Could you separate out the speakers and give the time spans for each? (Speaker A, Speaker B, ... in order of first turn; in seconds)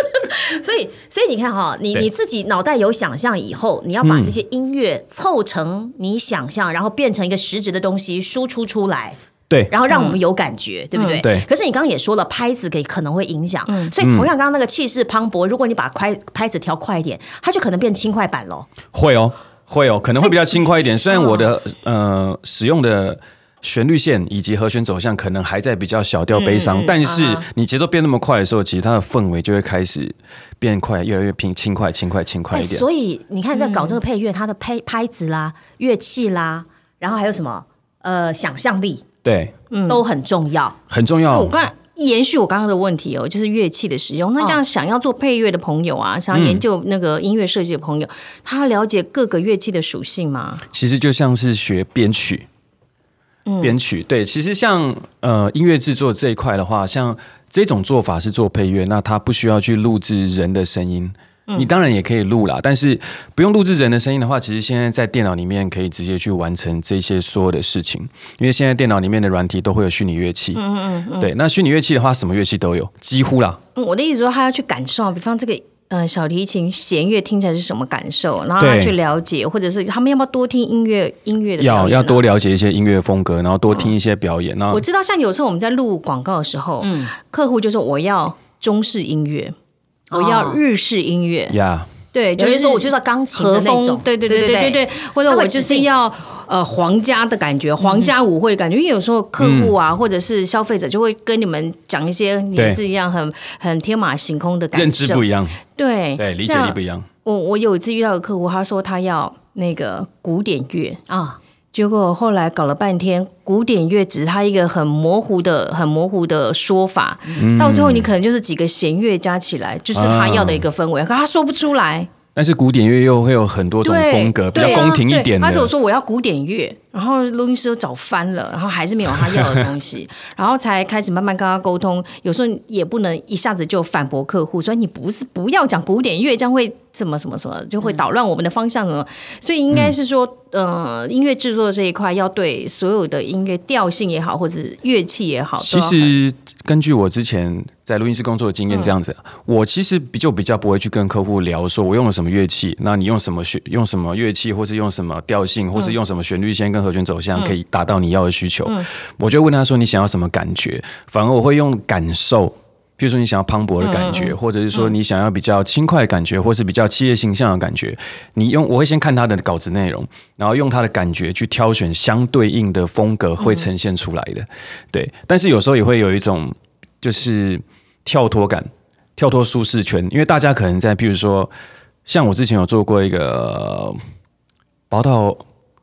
Speaker A: 0.3-9.2, 9.7-18.7, 27.0-27.4, 32.5-39.1, 39.9-40.8, 86.8-87.1, 90.1-90.6, 92.4-95.9, 97.8-98.1, 111.1-111.4, 124.5-125.0
Speaker B: 4.0-4.4, 11.2-11.5, 14.0-14.3, 18.9-32.9, 39.2-39.5, 40.9-41.6, 46.3-46.6, 50.7-52.5, 53.6-70.6, 71.2-73.6, 78.6-79.0, 81.6-84.8, 91.5-91.9, 99.4-99.8, 104.7-105.6, 106.2-107.1, 117.4-118.1, 119.9-120.7, 122.3-125.7, 129.2-129.7, 145.6-181.5, 182.1-184.0, 184.9-185.4
Speaker C: 9.9-10.2, 10.9-11.2, 26.3-27.0, 33.5-34.0, 39.7-40.0, 41.3-50.6, 53.5-53.8, 70.5-71.3, 73.8-82.2, 84.7-89.5, 90.1-91.6, 92.1-111.0, 111.7-122.1, 123.8-146.1, 163.8-164.9